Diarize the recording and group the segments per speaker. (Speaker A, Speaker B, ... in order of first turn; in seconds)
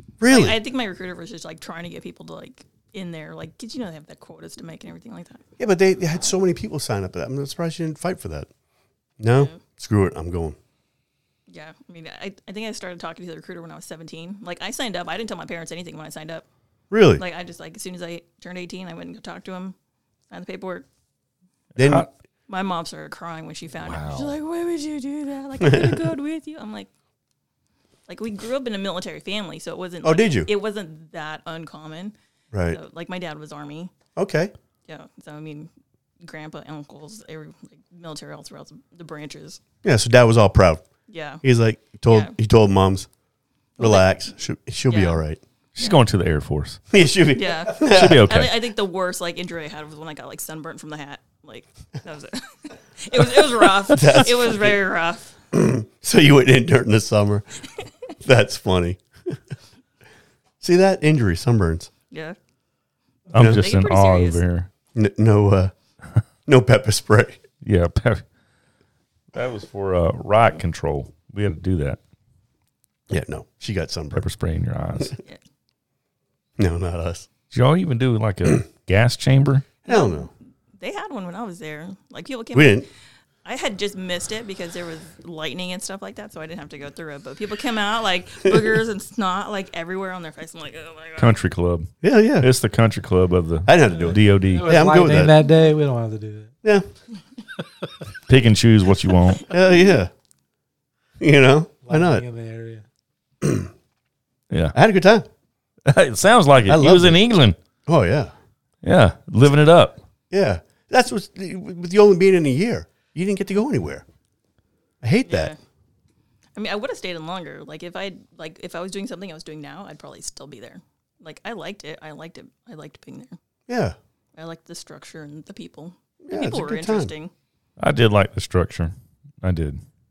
Speaker A: 0.2-0.6, 5.6-8.5, 9.2-10.6, 16.9-17.2, 21.8-22.1, 25.6-26.0, 30.0-30.5, 32.5-32.8, 34.1-34.5, 39.8-40.8, 41.4-43.1, 43.8-45.4, 46.9-48.3, 53.9-54.8, 55.5-57.4, 58.2-59.4, 60.6-61.9, 63.4-63.6, 64.9-65.7, 66.5-67.4, 73.1-74.2, 76.6-77.3, 79.8-80.3, 82.5-82.9, 92.0-92.5, 93.6-95.3, 99.4-100.1, 101.2-102.2, 103.4-103.7, 104.7-105.3, 106.7-107.2, 107.9-108.3, 110.3-114.0, 115.0-115.5, 123.7-124.0, 126.2-127.1
Speaker B: 0.2-5.4, 9.3-9.6, 11.5-16.4, 17.2-19.7, 20.3-20.9, 22.5-26.9, 28.1-32.1, 32.6-33.9, 34.9-39.6, 41.1-41.4, 42.1-42.3, 43.8-44.1, 44.9-45.2, 47.3-55.3, 62.1-62.4, 63.4-64.4, 79.9-82.9, 83.4-91.3, 115.3-115.6, 116.5-123.4, 124.3-127.3
Speaker C: 21.8-22.1, 23.8-24.3, 45.8-46.8, 47.8-48.5, 63.3-64.7, 67.6-68.2, 69.3-72.0, 74.1-75.2, 77.5-79.7, 91.2-94.7, 98.3-99.5, 105.8-107.5, 108.8-110.0, 127.8-129.8
Speaker D: 94.5-96.5, 97.6-97.9, 101.9-102.8